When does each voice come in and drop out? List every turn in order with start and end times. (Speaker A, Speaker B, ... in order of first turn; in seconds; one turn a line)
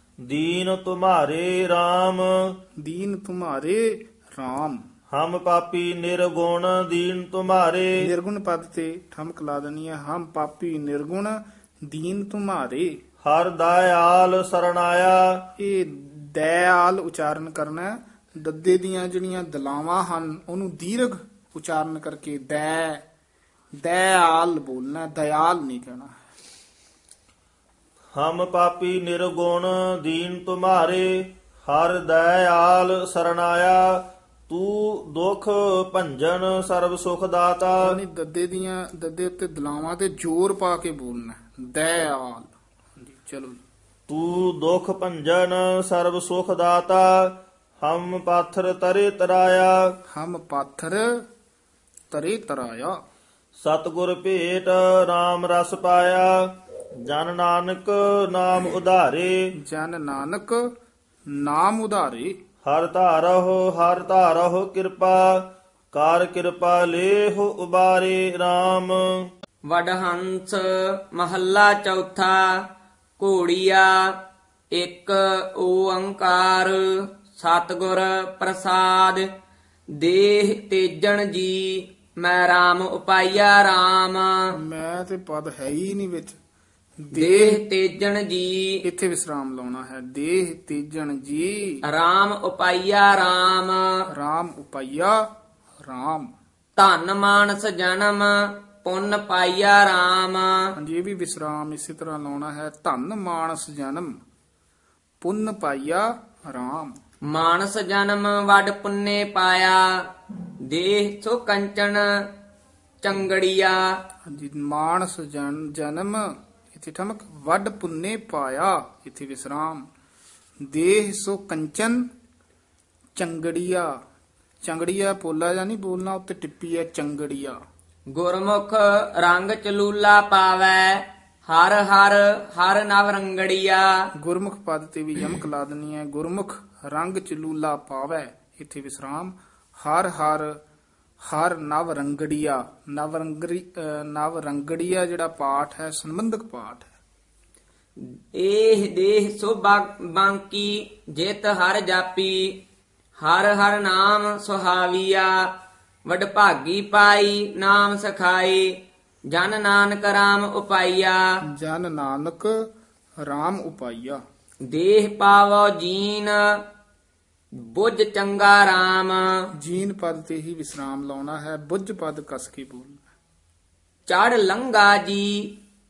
Speaker A: 0.2-2.6
Speaker B: 2.8-4.8
Speaker A: 5.1-8.0
Speaker B: 8.0-13.0
Speaker A: 13.2-15.4
Speaker B: 15.6-23.0
Speaker B: 23.8-26.1
Speaker A: 28.1-38.0
Speaker B: 37.8-43.6
Speaker A: 44.1-49.9
Speaker B: 50.1-51.2
Speaker B: 52.1-53.0
Speaker A: 53.6-59.5
Speaker B: 59.6-60.7
Speaker B: 61.3-62.4
Speaker A: 62.6-69.3
Speaker C: 69.7-74.2
Speaker C: 74.7-79.3
Speaker C: 80.0-84.5
Speaker B: 84.5-86.4
Speaker B: 87.0-87.6
Speaker C: 87.1-88.8
Speaker B: 88.8-91.8
Speaker C: 91.8-94.0
Speaker B: 94.1-95.2
Speaker B: 95.8-96.3
Speaker C: 96.8-100.7
Speaker B: 100.8-104.2
Speaker B: 105.2-107.0
Speaker C: 107.3-110.1
Speaker C: 110.7-112.3
Speaker C: 113.0-114.0
Speaker B: 114.3-119.9
Speaker B: 120.7-122.1
Speaker B: 123.2-124.0
Speaker B: 124.6-127.6
Speaker C: 128.1-134.1
Speaker B: 134.2-140.6
Speaker B: 141.2-146.9
Speaker C: 148.0-152.6
Speaker C: 153.2-155.5
Speaker C: 156.1-158.8
Speaker C: 159.3-161.3
Speaker B: 161.4-162.7
Speaker B: 163.2-164.2
Speaker C: 164.7-166.6
Speaker C: 167.5-169.5
Speaker B: 169.6-173.0
Speaker C: 174.1-175.6